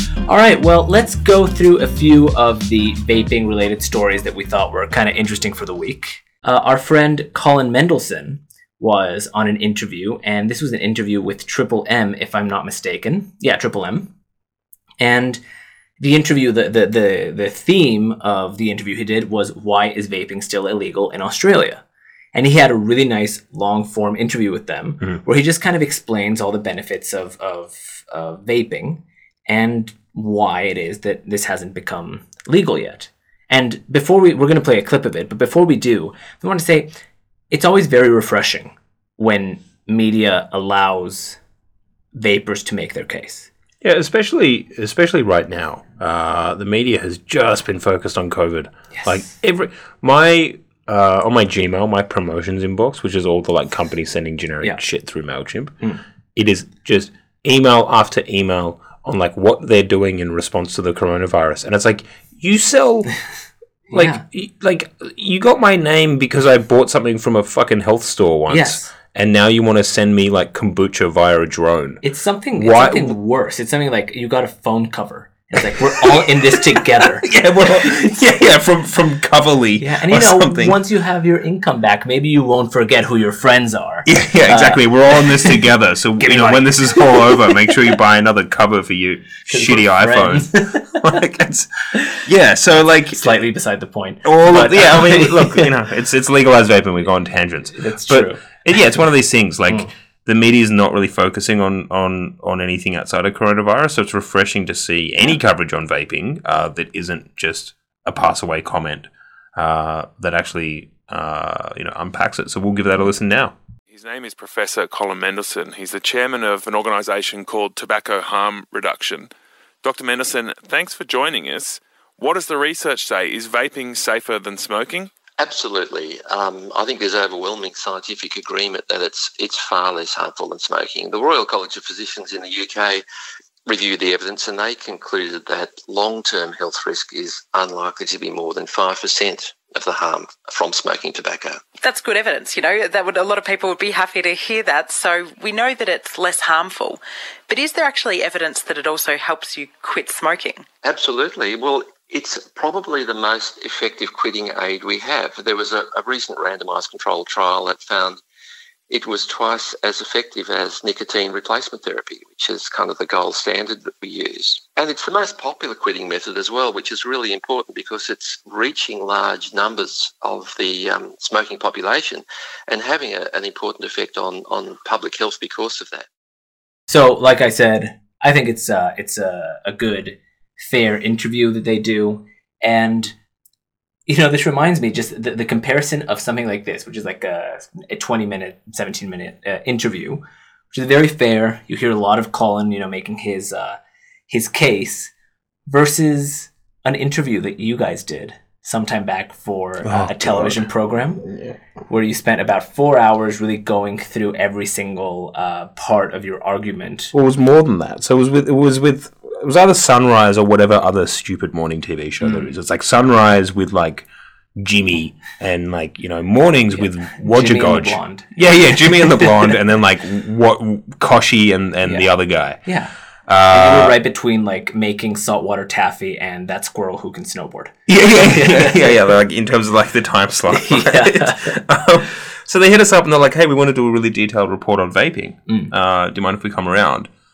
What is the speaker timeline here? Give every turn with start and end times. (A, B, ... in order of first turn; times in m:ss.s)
0:00.3-0:14.1 A
0:15.0-0:15.4 A
0:16.0-0:21.8 A
0:22.3-0:36.9 A
0:37.5-0:41.4 A
0:42.1-0:43.5 A
0:43.8-0:55.8 B
0:56.3-1:03.1 B
1:03.9-1:04.2 A
1:03.9-1:12.0 B
1:08.5-1:08.9 A
1:12.0-1:18.1 A
1:12.5-1:13.2 B
1:17.2-1:20.8 B
1:19.8-1:25.6 A
1:24.0-1:33.4 B
1:26.2-1:27.7 A
1:29.5-1:31.0 A
1:33.1-1:35.7 A
1:34.2-1:53.6 B
1:37.7-1:38.4 A
1:53.9-1:59.3 C
1:59.8-2:05.1 C
2:05.4-2:13.0 D
2:13.6-2:21.6 D
2:21.8-2:30.6 E
2:30.8-2:38.2 D
2:38.9-2:56.1 D
2:56.9-3:03.1 A
3:04.1-3:15.1 A
3:15.7-3:21.3 A
3:19.8-3:20.6 B
3:21.2-3:21.5 B
3:21.9-3:27.1 A
3:27.1-3:42.6 B
3:32.2-3:32.5 A
3:36.7-3:39.5 A
3:41.8-3:42.9 A
3:43.3-3:44.0 B
3:43.5-3:48.9 A
3:47.9-3:57.1 B
3:50.5-3:51.6 A